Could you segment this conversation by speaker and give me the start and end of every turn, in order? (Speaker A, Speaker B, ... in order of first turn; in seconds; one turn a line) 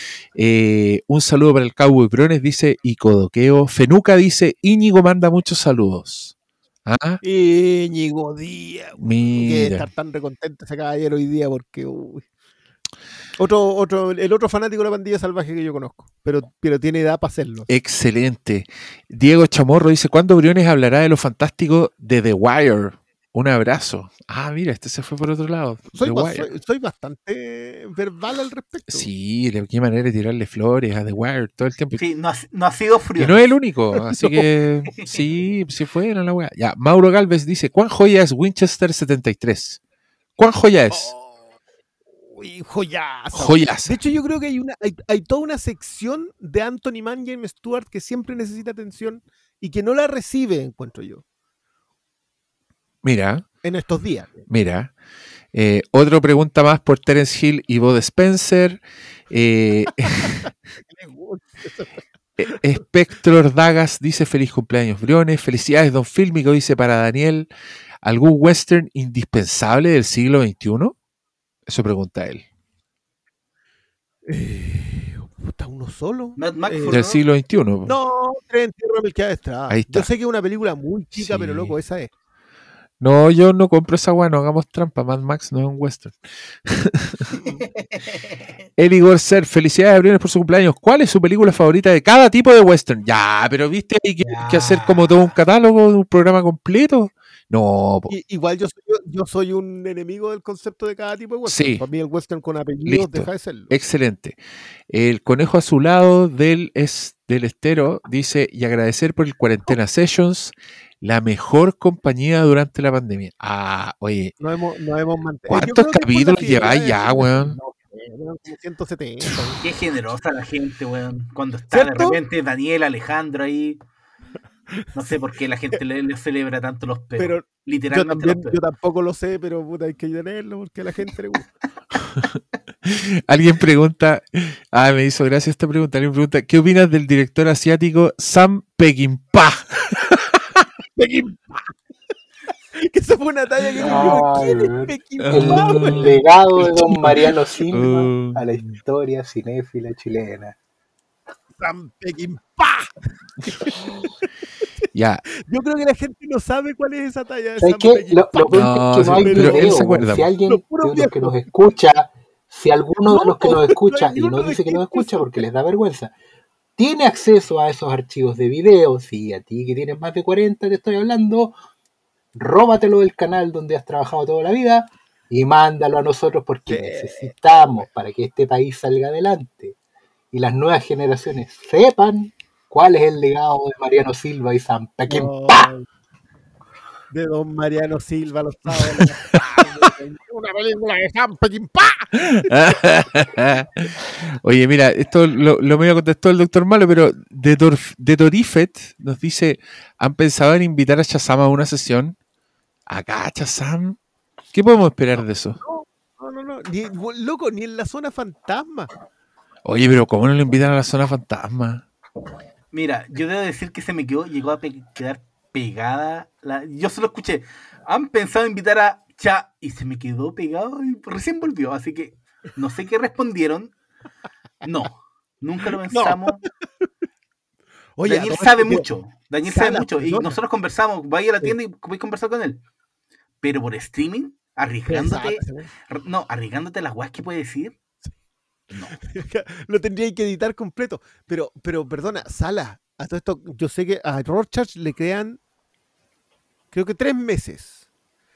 Speaker A: 0.3-6.3
Speaker A: 6.9-7.2
Speaker B: 7.2-12.3
Speaker A: 9.0-9.9
Speaker B: 13.4-17.7
Speaker A: 17.7-26.5
Speaker B: 26.0-29.1
Speaker A: 28.9-32.0
Speaker C: 32.0-33.5
Speaker A: 33.2-39.8
Speaker A: 40.4-41.1
Speaker B: 40.9-41.5
Speaker B: 42.2-51.2
Speaker A: 43.3-44.0
Speaker A: 53.0-53.5
Speaker B: 53.6-54.5
Speaker A: 54.5-54.9
Speaker A: 55.5-60.4
Speaker B: 60.3-61.9
Speaker A: 62.4-67.5
Speaker A: 68.0-71.0
Speaker A: 71.7-72.5
Speaker B: 74.3-77.1
Speaker C: 76.4-77.2
Speaker A: 76.9-78.0
Speaker B: 77.9-82.1
Speaker A: 79.7-80.1
Speaker A: 81.2-81.8
Speaker A: 83.0-87.3
Speaker C: 87.4-88.3
Speaker A: 88.8-98.1
Speaker C: 94.2-95.3
Speaker B: 98.1-103.8
Speaker A: 101.5-101.8
Speaker A: 102.8-114.3
Speaker B: 114.4-119.6
Speaker A: 115.5-117.6
Speaker C: 119.6-123.8
Speaker B: 121.7-122.2
Speaker C: 124.9-128.6
Speaker B: 127.2-131.5
Speaker A: 132.1-140.1
Speaker B: 141.0-141.7
Speaker B: 142.8-147.3
Speaker D: 143.8-150.6
Speaker A: 145.2-148.7
Speaker B: 151.6-154.1
Speaker A: 154.9-155.2
Speaker B: 155.5-160.0
Speaker D: 157.6-166.1
Speaker A: 158.5-160.3
Speaker B: 160.5-161.5
Speaker B: 163.1-165.3
Speaker D: 166.8-171.6
Speaker D: 172.3-179.8
Speaker B: 176.7-177.9
Speaker D: 180.3-185.7
Speaker B: 185.1-185.9
Speaker B: 187.1-192.5
Speaker A: 192.4-202.2
Speaker A: 202.9-204.0
Speaker A: 204.5-205.6
Speaker B: 205.2-208.9
Speaker A: 209.7-211.9
Speaker C: 212.7-223.7
Speaker C: 224.6-226.4
Speaker B: 225.9-226.9
Speaker B: 228.0-228.8
Speaker C: 228.1-232.6
Speaker B: 229.5-230.3
Speaker C: 233.4-237.8
Speaker B: 234.9-235.7
Speaker C: 238.7-239.0
Speaker B: 239.1-245.4
Speaker B: 246.7-247.8